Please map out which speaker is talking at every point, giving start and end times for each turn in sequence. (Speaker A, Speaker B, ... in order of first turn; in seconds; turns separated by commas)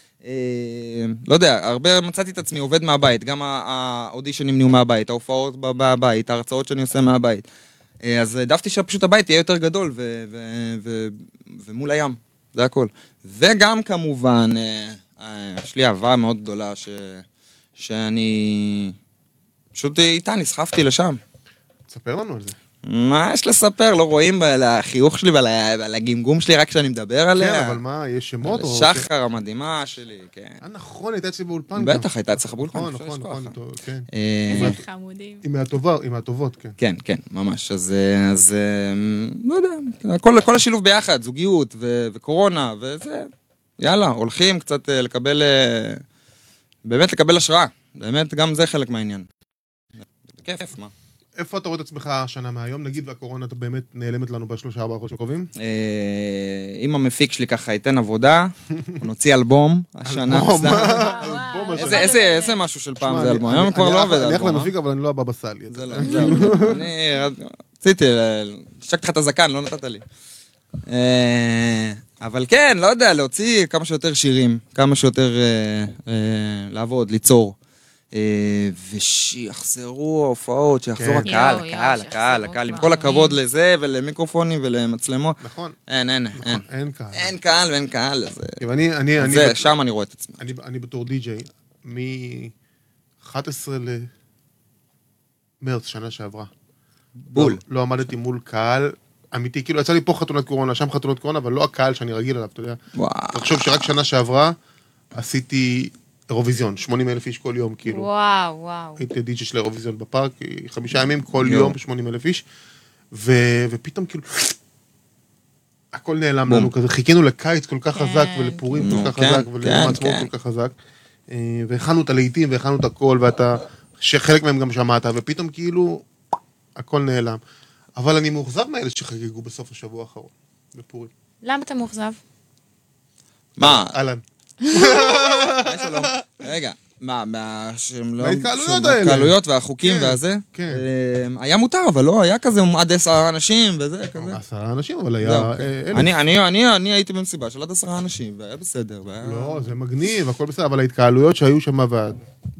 Speaker A: 0.2-7.4, Speaker A: 8.0-17.2, Speaker A: 17.8-18.9, Speaker A: 19.7-21.2, Speaker B: 21.9-22.6, Speaker A: 22.8-27.8, Speaker B: 27.3-29.1, Speaker A: 28.4-30.6, Speaker B: 30.6-34.8, Speaker A: 31.7-33.5, Speaker A: 34.1-34.8, Speaker C: 34.5-35.4, Speaker B: 35.4-36.8, Speaker A: 36.8-46.0, Speaker A: 46.8-49.2, Speaker A: 50.3-50.9, Speaker B: 51.4-55.5, Speaker A: 55.6-64.7, Speaker B: 60.0-62.1, Speaker C: 60.7-62.6, Speaker B: 63.0-66.8, Speaker A: 65.7-70.0, Speaker C: 66.0-66.7, Speaker A: 70.9-77.5, Speaker A: 78.1-88.6, Speaker B: 81.0-81.3, Speaker C: 81.2-83.4, Speaker B: 85.4-85.8, Speaker B: 86.3-87.3, Speaker B: 88.6-89.7, Speaker A: 89.2-90.4, Speaker B: 90.4-92.5, Speaker B: 93.2-94.1, Speaker B: 95.6-96.5, Speaker A: 97.2-97.6, Speaker B: 97.3-102.8, Speaker A: 103.0-103.9, Speaker B: 103.3-104.5, Speaker B: 105.1-108.1, Speaker C: 107.8-109.0, Speaker B: 109.0-112.4, Speaker A: 111.4-111.8, Speaker B: 113.1-114.5, Speaker B: 115.9-120.7, Speaker C: 117.9-118.8, Speaker A: 118.8-120.3, Speaker B: 121.3-126.0, Speaker B: 126.8-127.4, Speaker B: 128.0-131.1, Speaker C: 131.4-132.2, Speaker A: 133.6-134.0, Speaker B: 133.6-136.1, Speaker C: 134.6-135.3, Speaker A: 135.6-144.4, Speaker B: 138.2-140.8, Speaker B: 144.1-146.1, Speaker A: 145.2-149.7, Speaker B: 149.2-152.2